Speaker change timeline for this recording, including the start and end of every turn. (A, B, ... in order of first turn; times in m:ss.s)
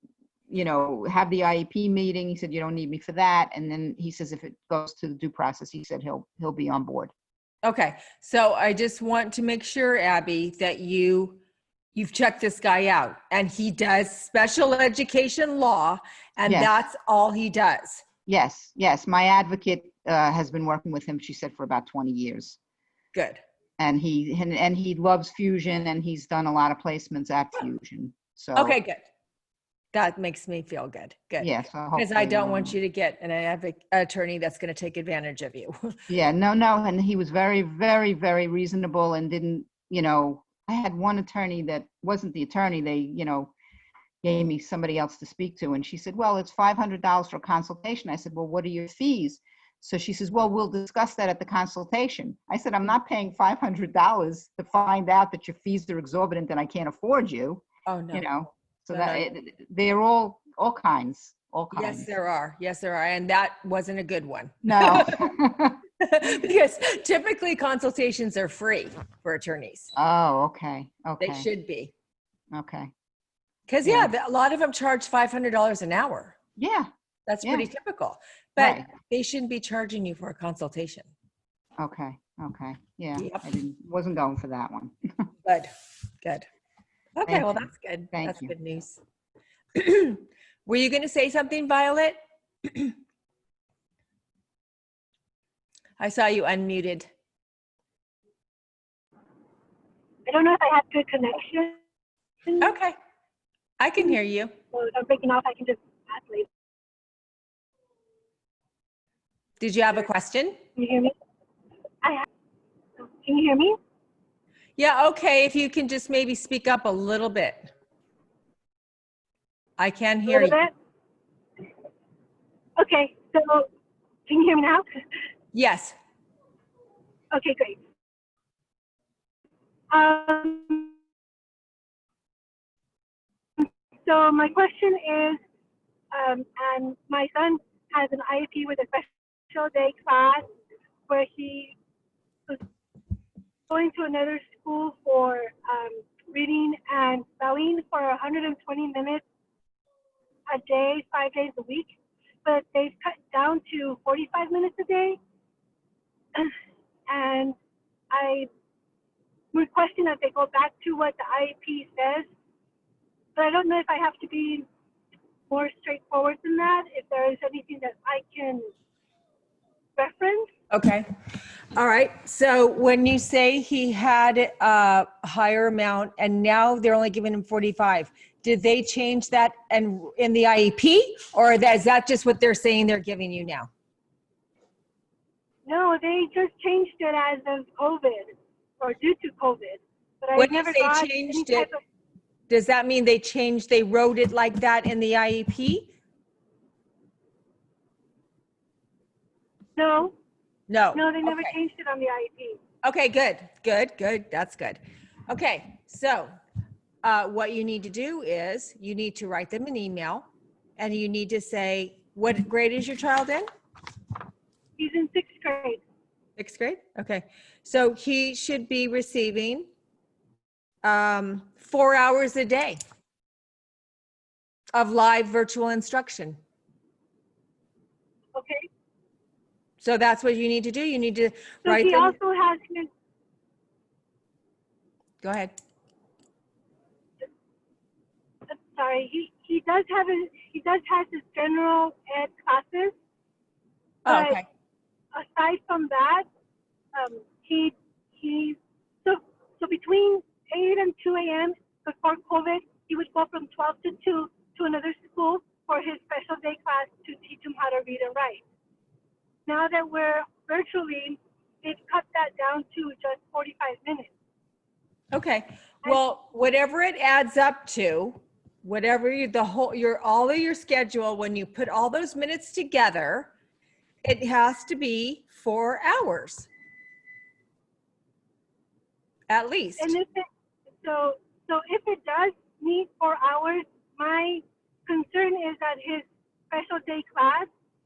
0:00.5-0:07.1 A
0:07.6-0:11.4 B
0:11.9-0:18.0 B
0:16.4-0:16.8 A
0:18.2-0:22.6 A
0:23.1-0:23.4 B
0:23.8-0:28.8 A
0:28.5-0:29.0 B
0:29.9-0:36.0 B
0:31.4-0:32.8 A
0:36.1-0:43.5 A
0:44.2-1:02.1 A
0:57.9-0:59.2 B
1:01.7-1:05.3 B
1:04.6-1:05.8 A
1:06.0-1:09.9 B
1:10.0-1:11.5 A
1:11.2-1:11.9 B
1:12.5-1:12.9 A
1:13.7-1:16.3 B
1:13.8-1:14.1 A
1:16.6-1:16.9 A
1:17.3-1:21.1 B
1:17.4-1:17.7 A
1:18.6-1:18.9 A
1:21.8-1:24.9 A
1:23.2-1:23.4 B
1:25.4-1:25.7 B
1:27.2-1:29.0 B
1:27.3-1:27.6 A
1:28.1-1:28.5 A
1:29.7-1:32.9 B
1:36.0-1:37.1 B
1:40.2-1:41.8 C
1:42.6-1:42.9 B
1:43.8-1:44.5 B
1:44.7-1:46.5 C
1:49.6-1:50.6 B
1:50.8-1:51.1 C
1:53.0-1:53.8 C
1:54.8-1:57.7 B
1:59.8-2:00.6 B
2:00.3-2:00.7 C
2:02.8-2:03.7 C
2:04.3-2:05.0 C
2:05.5-2:05.9 B
2:07.3-2:07.8 C
2:09.9-2:10.9 C
2:13.6-2:15.4 C
2:16.1-2:20.4 C
2:21.1-2:21.8 C
2:23.7-2:29.2 C
2:30.5-2:35.2 C
2:37.1-2:37.6 C
2:38.1-2:38.5 C
2:39.5-2:42.3 C
2:43.4-2:44.6 C
2:45.5-2:48.7 C
2:50.0-2:50.5 C
2:50.7-2:51.1 B
2:51.7-3:03.7 B
3:05.6-3:11.8 C
3:10.4-3:11.7 B
3:12.5-3:15.9 B
3:19.8-3:20.1 C
3:20.7-3:21.5 B
3:20.9-3:22.6 C
3:22.8-3:26.3 B
3:27.0-3:30.3 B
3:30.8-3:33.5 B
3:34.8-3:35.8 C
3:36.4-3:39.7 B
3:40.8-3:42.8 B
3:44.7-3:46.4 B
3:48.3-3:48.6 C
3:49.8-3:52.2 B
3:51.6-3:52.9 C
3:55.2-3:55.5 B
3:58.5-4:02.9 C
4:04.0-4:04.4 C
4:04.0-4:04.4 B
4:05.1-4:06.2 C
4:06.9-4:18.4 C
4:19.5-4:24.1 C
4:25.1-4:33.3 B
4:34.0-4:36.5 B
4:39.3-4:40.0 B
4:39.8-4:40.3 C
4:40.8-4:47.5 C